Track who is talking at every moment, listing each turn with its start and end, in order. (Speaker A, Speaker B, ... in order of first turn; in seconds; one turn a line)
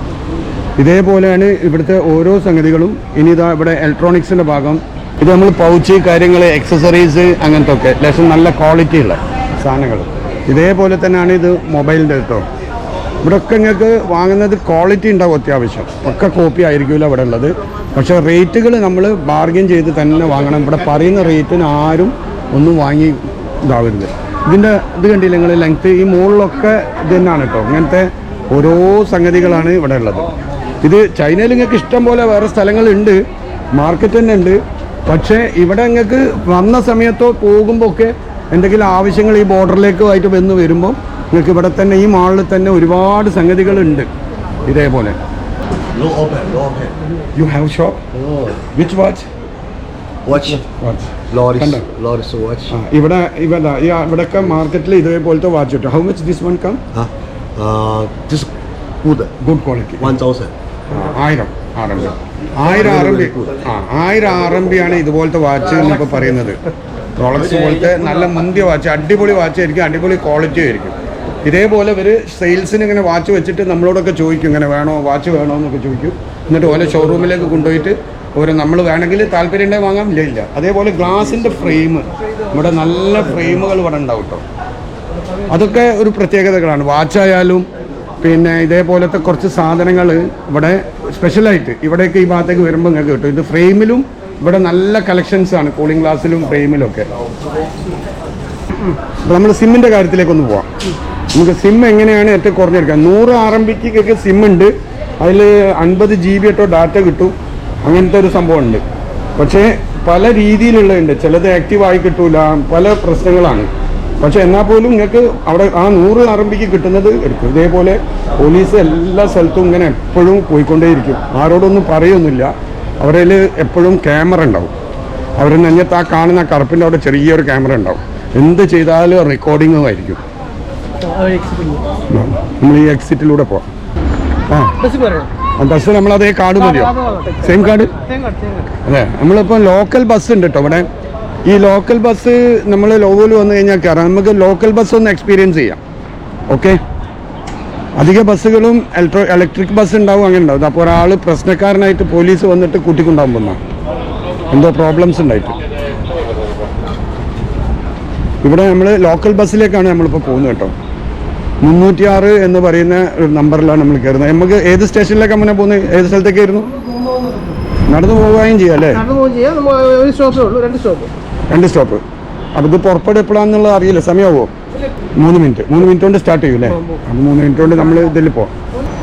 Speaker A: 0.8-12.4
Speaker A: 13.2-30.3
Speaker A: 30.8-33.2
Speaker A: 33.7-44.1
Speaker A: 44.6-45.2
Speaker B: 45.9-46.9
Speaker A: 47.4-48.0
Speaker B: 48.1-48.6
Speaker A: 48.7-49.3
Speaker B: 50.2-50.6
Speaker A: 50.6-51.9
Speaker B: 51.3-52.7
Speaker A: 52.7-56.8
Speaker B: 56.9-58.5
Speaker B: 59.0-59.3
Speaker A: 59.4-60.1
Speaker B: 60.0-60.5
Speaker A: 60.9-66.6
Speaker B: 62.7-63.5
Speaker A: 67.2-84.4
Speaker A: 85.5-87.7
Speaker A: 88.2-97.1
Speaker A: 99.2-100.7
Speaker A: 101.3-107.3
Speaker A: 107.8-108.8
Speaker A: 109.3-113.7
Speaker A: 114.2-124.7
Speaker A: 125.4-130.2
Speaker C: 131.0-131.9
Speaker A: 132.1-133.6
Speaker A: 134.5-134.7
Speaker C: 134.8-135.3
Speaker A: 135.6-137.9
Speaker C: 136.6-138.7
Speaker A: 138.8-140.9
Speaker A: 141.5-145.8
Speaker A: 146.5-146.8
Speaker A: 148.0-153.6
Speaker A: 154.5-155.6
Speaker A: 158.4-160.7
Speaker A: 161.6-166.7
Speaker C: 167.0-167.5
Speaker A: 167.9-169.0
Speaker C: 168.9-171.1
Speaker A: 171.5-172.0
Speaker A: 172.6-174.5
Speaker A: 175.2-178.5